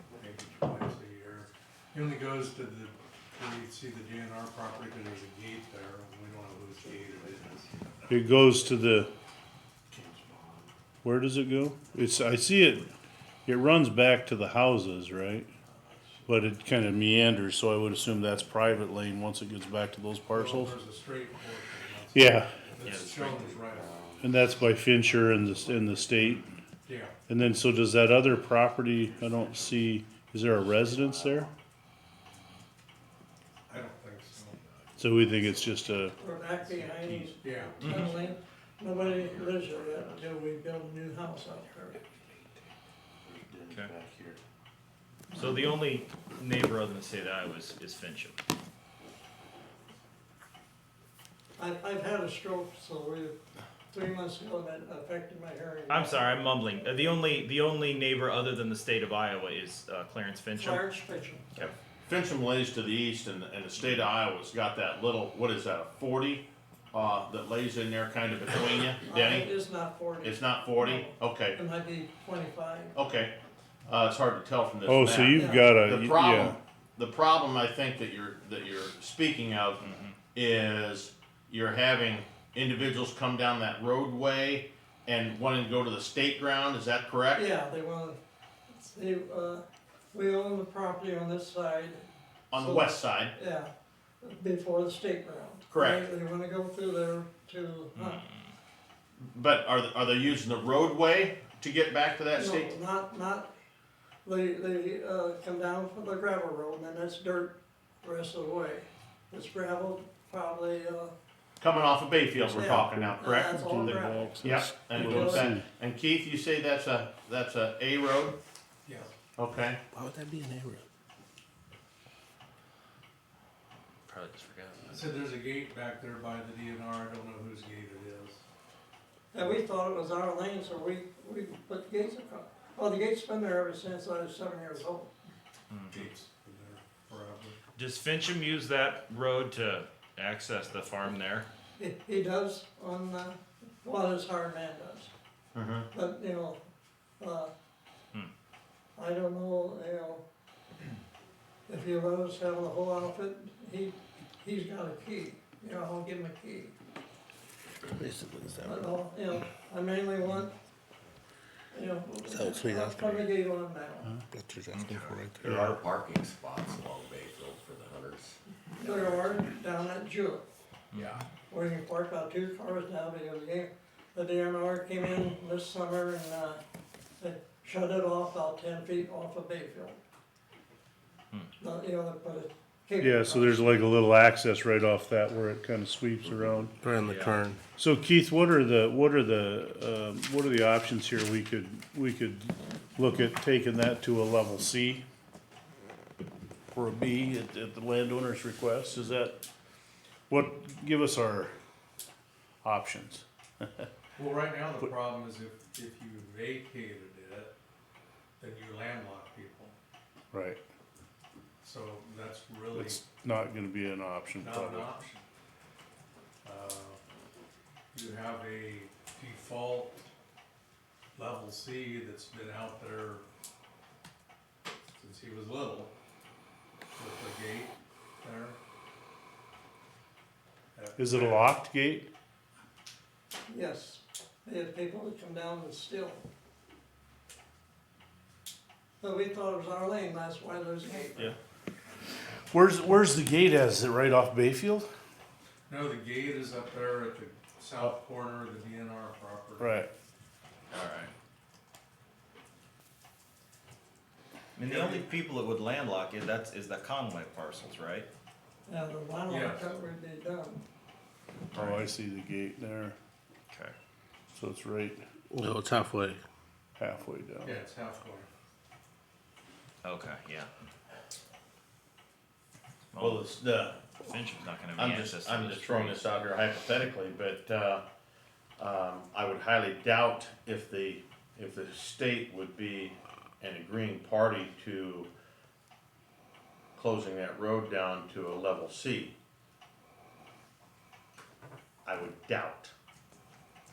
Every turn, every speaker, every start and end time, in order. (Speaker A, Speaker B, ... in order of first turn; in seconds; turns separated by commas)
Speaker A: 0.2-7.7, Speaker B: 8.0-8.5, Speaker C: 8.1-9.1, Speaker B: 9.9-10.7, Speaker C: 11.0-12.9, Speaker C: 13.4-15.5, Speaker B: 15.9-16.2, Speaker C: 16.3-20.8, Speaker A: 20.3-23.9, Speaker C: 22.1-22.5, Speaker D: 22.8-23.6, Speaker B: 22.8-26.5, Speaker C: 24.2-26.4, Speaker A: 26.8-27.1, Speaker C: 27.3-31.5, Speaker B: 29.0-29.9, Speaker B: 30.5-31.5, Speaker A: 33.7-34.5, Speaker B: 33.8-38.4, Speaker C: 35.0-36.2, Speaker E: 36.2-42.0, Speaker A: 37.4-37.9, Speaker D: 37.8-38.1, Speaker B: 38.9-40.7, Speaker B: 41.3-42.7, Speaker B: 43.2-44.4, Speaker D: 45.3-48.4, Speaker E: 51.6-53.4, Speaker E: 53.9-57.1, Speaker D: 55.9-61.0, Speaker E: 60.5-61.5, Speaker F: 62.1-69.5, Speaker D: 63.8-64.1, Speaker E: 69.0-73.0, Speaker F: 70.2-71.6, Speaker F: 72.9-73.3, Speaker F: 73.8-87.5, Speaker C: 74.8-76.5, Speaker E: 75.3-75.8, Speaker D: 79.8-80.2, Speaker E: 87.3-88.2, Speaker E: 88.7-92.0, Speaker F: 92.5-93.3, Speaker E: 92.5-93.7, Speaker E: 94.2-98.3, Speaker F: 95.7-96.1, Speaker D: 97.9-98.4, Speaker F: 99.2-102.7, Speaker E: 102.3-103.5, Speaker E: 104.2-111.1, Speaker F: 111.6-118.3, Speaker C: 112.4-115.7, Speaker E: 112.5-115.5, Speaker A: 118.8-119.1, Speaker F: 119.4-119.8, Speaker G: 119.9-120.8, Speaker D: 124.1-125.1, Speaker A: 124.9-128.4, Speaker E: 129.3-135.1, Speaker D: 135.7-136.1, Speaker A: 135.9-137.6, Speaker D: 137.7-141.5, Speaker E: 141.8-145.1, Speaker F: 145.5-145.9, Speaker E: 145.9-146.6, Speaker E: 147.2-147.5, Speaker E: 149.0-150.2, Speaker E: 151.7-156.7, Speaker G: 157.9-158.9, Speaker E: 158.6-160.5, Speaker E: 161.7-164.1, Speaker G: 162.3-163.3, Speaker G: 164.3-165.5, Speaker D: 164.7-166.0, Speaker B: 165.5-169.4, Speaker E: 168.8-170.4, Speaker D: 170.9-171.2, Speaker A: 170.9-171.2, Speaker E: 171.5-176.6, Speaker E: 177.2-180.0, Speaker E: 181.6-183.8, Speaker C: 183.0-186.7, Speaker G: 186.8-187.6, Speaker D: 187.0-187.4, Speaker C: 187.8-195.0, Speaker C: 196.7-199.4, Speaker C: 200.3-201.5, Speaker C: 202.6-203.9, Speaker A: 204.2-207.5, Speaker A: 208.4-209.8, Speaker C: 210.3-210.6, Speaker A: 211.6-213.0, Speaker C: 212.7-214.9, Speaker A: 214.4-215.2, Speaker A: 216.4-217.0, Speaker A: 217.9-220.1, Speaker A: 221.1-223.2, Speaker A: 225.0-225.9, Speaker A: 226.9-228.6, Speaker A: 230.7-231.5, Speaker C: 231.0-232.1, Speaker E: 233.5-236.2, Speaker E: 239.0-241.3, Speaker C: 242.5-244.9, Speaker A: 245.7-249.9, Speaker C: 249.6-249.9, Speaker D: 250.7-251.1, Speaker D: 254.6-258.1, Speaker A: 254.6-255.1, Speaker E: 258.7-260.6, Speaker A: 259.3-259.7, Speaker D: 261.5-261.9, Speaker C: 261.6-262.9, Speaker C: 264.3-265.0, Speaker G: 265.3-266.2, Speaker C: 266.8-267.6, Speaker A: 267.4-268.3, Speaker D: 269.8-270.5, Speaker D: 272.9-273.3, Speaker F: 273.0-273.8, Speaker D: 274.0-276.2, Speaker F: 274.8-277.8, Speaker F: 278.6-285.1, Speaker F: 286.8-289.1, Speaker F: 291.8-292.7